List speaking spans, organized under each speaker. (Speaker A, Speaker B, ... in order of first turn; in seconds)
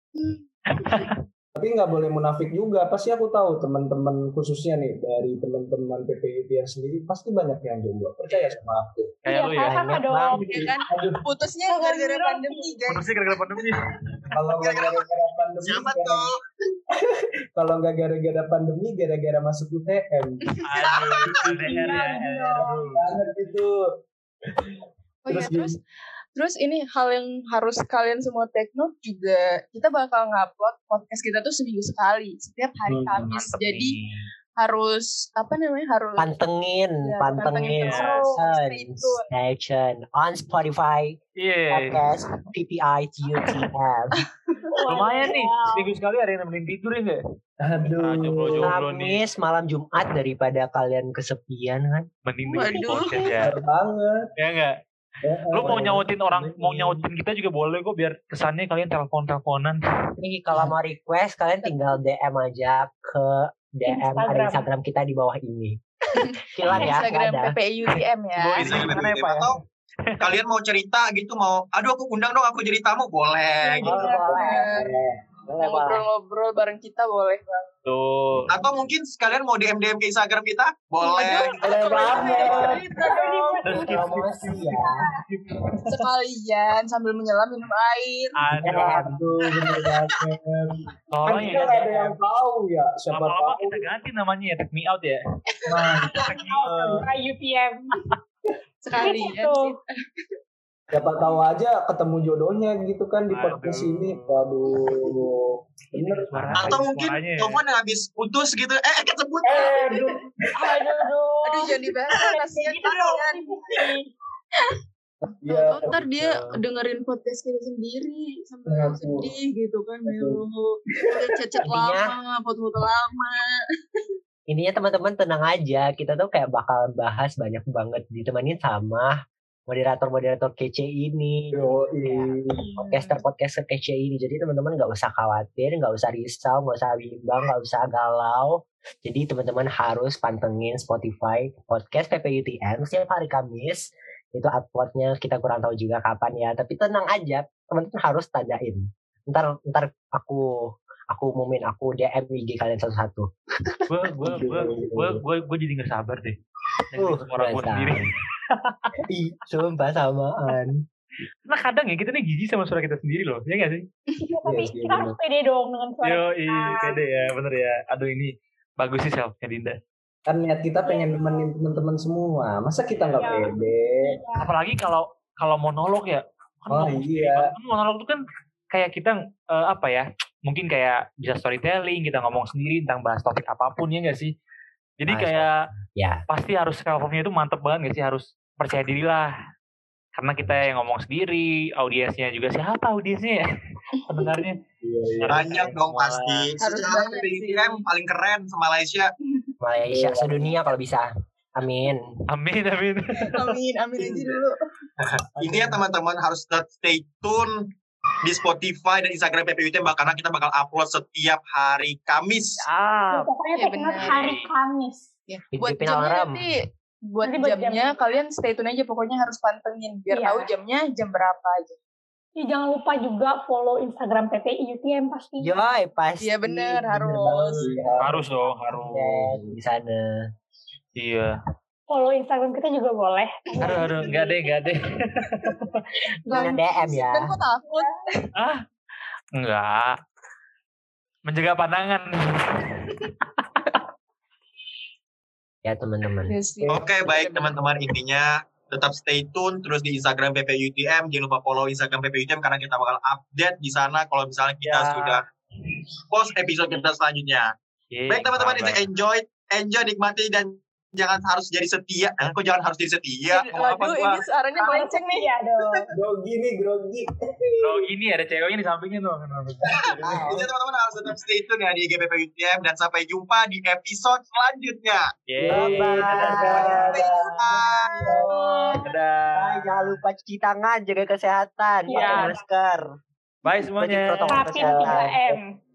Speaker A: 0.2-1.1, 10.4-13.6, 20.5-21.4, 25.2-25.8, 26.4-34.0, 34.6-36.3, 37.0-39.3, 44.1-44.8, 52.5-53.4, 66.1-68.7, 73.7-74.9, 75.6-77.7, 81.0-83.6, 85.9-88.4, 95.6-96.0, 98.8-100.3, 111.4-113.4, 115.5-123.6, 196.6-197.8, 203.3-204.6, 213.6-214.2, 215.3-221.8, 226.2-227.7, 236.3-238.3, 246.3-247.5, 263.3-265.3
Speaker B: 0.7-1.2, 9.2-9.8, 12.9-14.2, 20.6-23.1, 33.2-34.3, 37.8-38.1, 41.4-42.0, 44.9-47.2, 47.9-49.2, 52.3-53.5, 54.4-54.8, 55.5-59.8, 67.9-69.5, 77.9-78.5, 81.9-82.6, 83.6-86.1, 88.4-89.2, 91.1-92.2, 93.1-95.2, 96.1-96.5, 103.3-104.5, 106.0-107.6, 115.9-116.4, 153.9-156.4, 156.9-158.8, 161.5-163.9, 166.0-169.8, 174.4-178.2, 178.7-184.3, 185.0-185.5, 186.3-189.3, 190.2-193.4, 194.1-194.6, 195.2-196.5, 202.3-203.5, 212.7-213.3, 214.0-214.5, 228.0-229.3, 231.0-231.3, 233.6-235.8, 238.4-238.6, 239.4-240.0, 241.3-243.4, 254.6-255.2, 257.9-258.9, 267.6-270.3, 275.3-276.9, 278.8-280.0, 283.4-285.0
Speaker C: 1.6-9.1, 10.6-11.2, 14.3-16.2, 16.9-20.5, 22.5-23.7, 25.3-25.8, 32.9-33.2, 47.6-48.7, 53.4-54.2, 55.2-57.0, 74.0-75.1, 81.6-82.8, 88.5-93.8, 95.7-97.1, 100.9-106.9, 109.5-111.0, 115.4-116.0, 118.7-119.3, 120.1-120.4, 131.5-132.8, 154.2-155.2, 164.4-165.2, 170.3-174.2, 176.7-177.5, 194.2-195.4, 199.8-200.5, 205.4-205.8, 227.6-228.3, 265.9-267.9, 269.7-270.5, 275.4-277.3, 278.1-278.3
Speaker D: 9.3-10.6, 11.7-12.8, 21.5-22.9, 44.8-45.9, 63.9-64.7, 66.7-67.0, 74.3-74.6, 82.1-85.2, 96.1-97.9, 98.9-99.7, 110.6-114.1, 164.2-167.1, 170.8-171.5, 173.0-174.5, 213.1-215.2, 217.2-218.0, 220.1-220.5, 222.4-225.6, 231.9-234.6, 264.6-265.9, 278.2-278.9, 281.9-282.4, 284.3-285.5
Speaker E: 9.6-10.4, 36.2-41.2, 41.7-44.2, 48.5-52.1, 60.2-65.8, 66.5-67.5, 73.8-74.8, 75.5-76.0, 82.1-82.5, 83.8-85.0, 88.6-89.2, 121.7-122.1, 124.5-129.1, 129.7-153.3, 157.0-158.0, 159.1-160.8, 185.1-186.2, 199.6-202.1, 215.6-216.4, 225.4-230.2, 236.3-237.4, 245.7-246.3, 275.5-278.4, 279.4-282.8, 283.8-285.4
Speaker F: 14.6-16.3, 68.6-69.5, 70.2-74.0, 78.5-81.5, 106.6-109.7, 195.3-199.1, 205.4-207.6, 208.2-212.5, 246.7-255.2, 256.1-257.5, 258.1-264.2, 270.0-275.1, 276.9-277.9